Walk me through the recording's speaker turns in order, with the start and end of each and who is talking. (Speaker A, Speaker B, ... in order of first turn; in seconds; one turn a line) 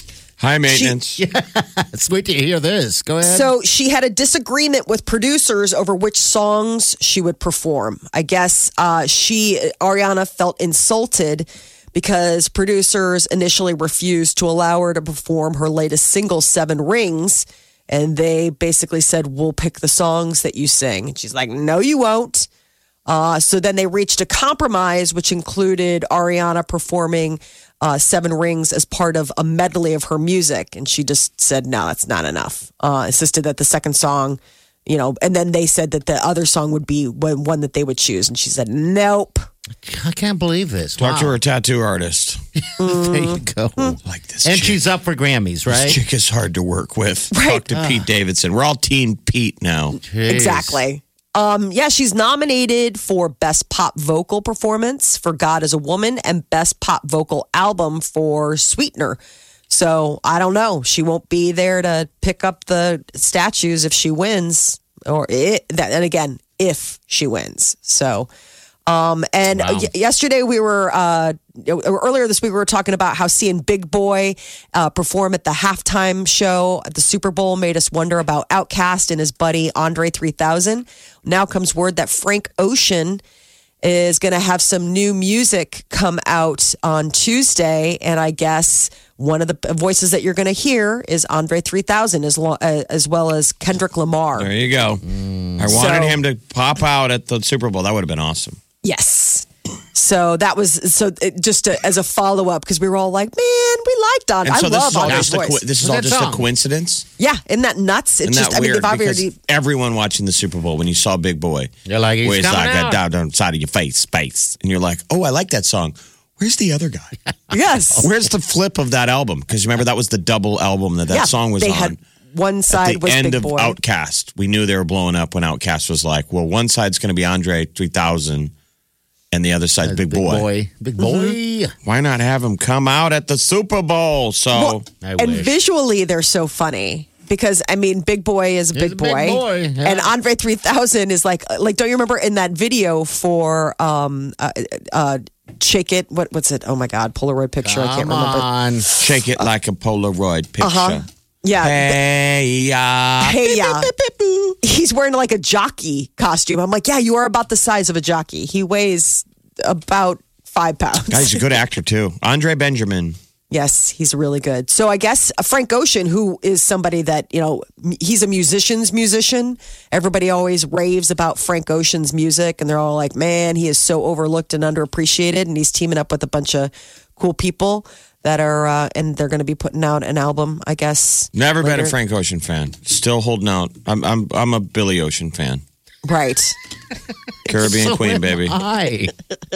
Speaker A: 0.4-1.2
Speaker B: 0.7-0.9
Speaker C: 1.1-3.5
Speaker B: 3.2-22.5
Speaker B: 23.1-39.5
Speaker C: 39.8-41.4
Speaker A: 41.0-42.4
Speaker C: 42.6-46.0
Speaker B: 42.8-44.0
Speaker A: 44.0-44.8
Speaker A: 45.7-50.0
Speaker B: 47.3-47.6
Speaker C: 47.7-48.0
Speaker C: 50.0-50.8
Speaker B: 50.3-68.3
Speaker B: 68.9-83.2
Speaker C: 69.5-69.9
Speaker B: 83.8-94.5
Speaker A: 94.4-95.0
Speaker C: 95.0-95.9
Speaker A: 95.6-98.6
Speaker B: 95.7-96.2
Speaker B: 98.8-105.6
Speaker A: 104.4-107.0
Speaker C: 105.0-106.5
Speaker B: 107.2-109.3
Speaker A: 108.2-111.7
Speaker C: 111.8-113.0
Speaker A: 112.2-117.2
Speaker B: 117.5-118.1
Speaker A: 118.0-122.0
Speaker B: 121.1-123.8
Speaker A: 122.7-128.5
Speaker A: 129.3-130.5
Speaker C: 129.8-131.7
Speaker B: 131.0-131.3
Speaker A: 131.8-134.8
Speaker B: 134.5-149.4
Speaker C: 135.0-135.5
Speaker C: 138.7-140.1
Speaker C: 147.6-148.8
Speaker A: 149.0-151.0
Speaker B: 150.6-152.0
Speaker A: 151.6-153.6
Speaker B: 153.2-153.9
Speaker C: 153.7-154.6
Speaker B: 154.6-161.4
Speaker A: 161.1-163.2
Speaker B: 163.5-181.9
Speaker A: 181.3-185.6
Speaker B: 186.1-186.6
Speaker C: 187.5-189.1
Speaker A: 187.5-188.6